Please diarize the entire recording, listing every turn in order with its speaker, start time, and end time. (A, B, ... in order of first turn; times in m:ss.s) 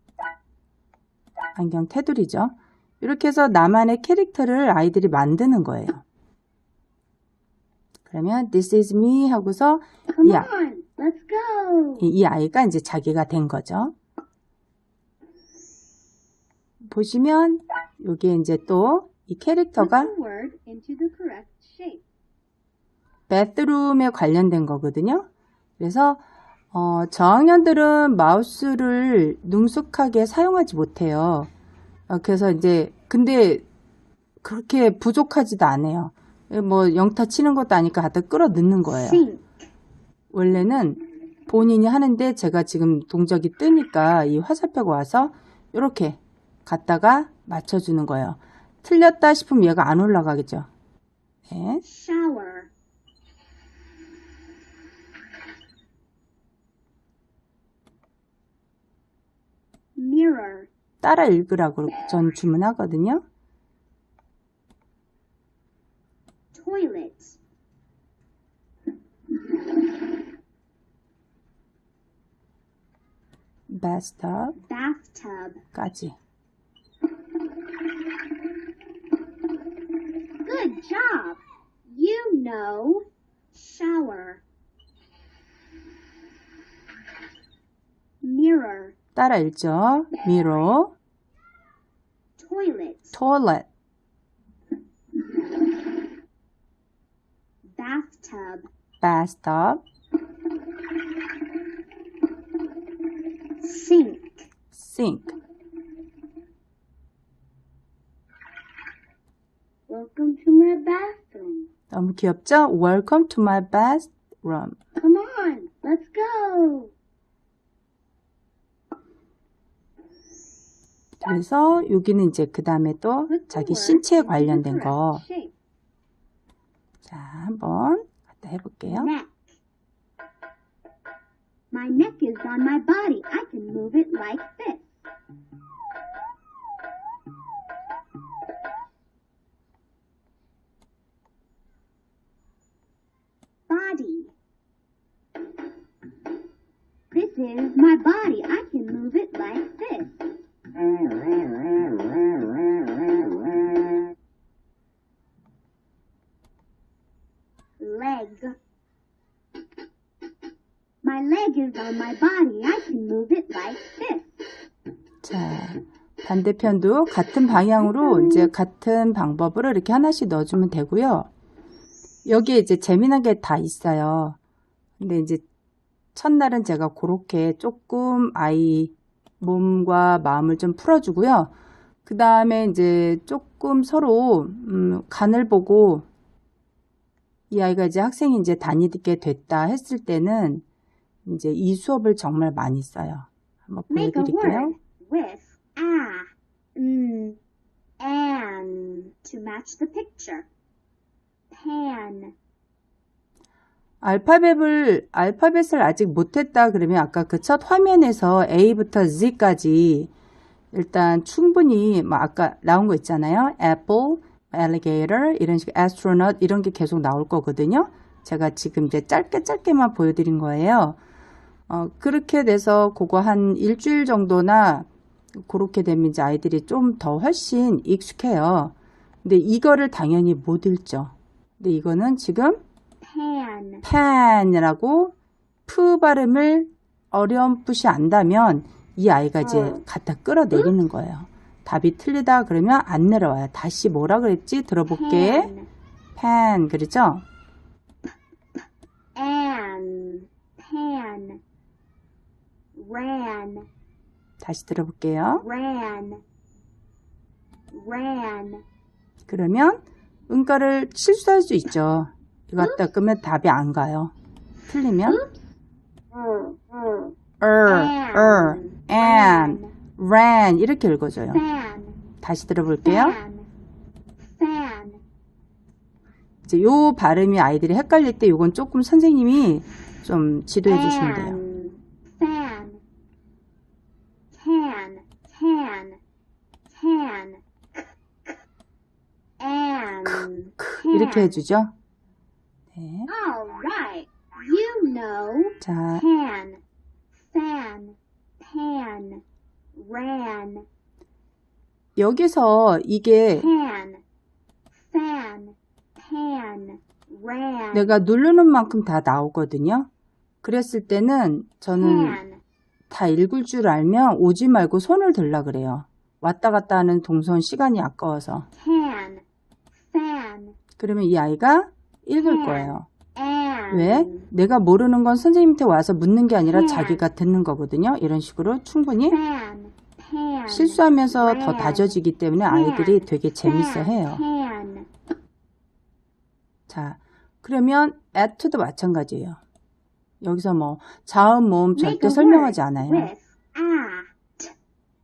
0:01.5-0:06.0 A
0:08.0-0:10.5 A
0:10.1-0:12.1 B
0:12.0-0:13.9 A
0:16.9-0:20.1 A
0:19.8-0:22.0 B
0:23.3-0:25.3 A
0:25.8-0:31.5 A
0:32.1-0:33.6 A
0:34.4-0:39.2 A
0:38.9-0:39.4 B
0:40.3-0:50.7 A
0:51.5-0:51.8 A
0:51.8-0:52.7 B
1:00.0-1:00.7 B
1:01.0-1:03.2 A
1:06.5-1:07.4 B
1:13.7-1:14.6 A
1:14.6-1:15.6 B
1:15.7-1:16.2 A
1:20.4-1:24.4 B
1:28.2-1:28.9 B
1:29.2-1:30.9 A
1:32.4-1:33.2 B
1:33.1-1:33.7 A
1:37.8-1:38.7 B
1:39.0-1:39.8 A
1:43.6-1:44.4 B
1:44.7-1:45.3 A
1:49.9-1:51.7 B
1:51.9-1:54.8 A
1:55.0-1:56.9 B
2:01.2-2:05.2 A
2:03.3-2:05.5 B
2:07.0-2:09.1 A
2:08.9-2:09.4 B
2:11.7-2:14.9 B
2:23.7-2:24.3 B
2:27.1-2:30.2 B
2:37.8-2:38.6 B
2:41.0-2:44.4 B
2:45.2-2:51.3 A
2:47.9-2:48.5 B
2:52.2-2:54.4 A
2:55.0-2:55.4 A
2:56.1-3:01.5 A
3:02.0-3:06.1 A
3:07.5-3:10.6 A
3:11.2-3:14.7 A
3:13.9-3:17.4 B
3:18.0-3:20.5 B
3:21.5-3:22.3 B
3:24.0-3:30.1 A
3:30.7-3:41.0 A
3:41.7-3:52.6 A
3:53.0-3:53.8 B
3:53.8-3:55.1 A
3:55.7-4:05.5 A
4:04.9-4:05.7 B
4:06.2-4:07.2 A
4:09.2-4:11.4 B
4:12.7-4:13.7 B
4:14.4-4:15.4 A
4:15.4-4:16.2 B
4:17.7-4:18.6 B
4:19.3-4:24.1 A
4:22.6-4:22.9 B
4:24.7-4:25.2 A
4:25.0-4:25.5 B
4:27.4-4:31.4 A
4:27.6-4:29.7 B
4:31.3-4:32.0 B
4:32.2-4:33.2 A
4:32.8-4:33.5 B
4:34.4-4:35.0 B
4:36.4-4:41.4 A
4:40.6-4:42.8 B
4:44.3-4:46.0 B
4:46.7-4:47.4 B
4:49.4-4:51.4 B
4:50.0-4:51.7 A
4:52.7-4:53.1 A
4:53.1-4:56.6 B
4:55.6-4:56.0 A
4:57.2-4:59.2 B
4:59.7-5:00.6 B
5:02.0-5:03.5 A
5:03.4-5:04.0 B
5:04.9-5:07.9 B
5:07.7-5:09.9 A
5:10.4-5:12.2 A
5:11.7-5:12.4 B
5:12.9-5:18.5 A
5:18.6-5:19.2 B
5:19.9-5:20.6 B
5:20.8-5:22.9 A
5:22.2-5:24.3 B
5:23.7-5:29.2 A
5:26.5-5:27.0 B
5:29.0-5:31.9 B
5:30.5-5:34.2 A
5:32.4-5:34.9 B
5:36.7-5:39.4 A
5:40.2-5:43.1 A
5:41.8-5:44.5 B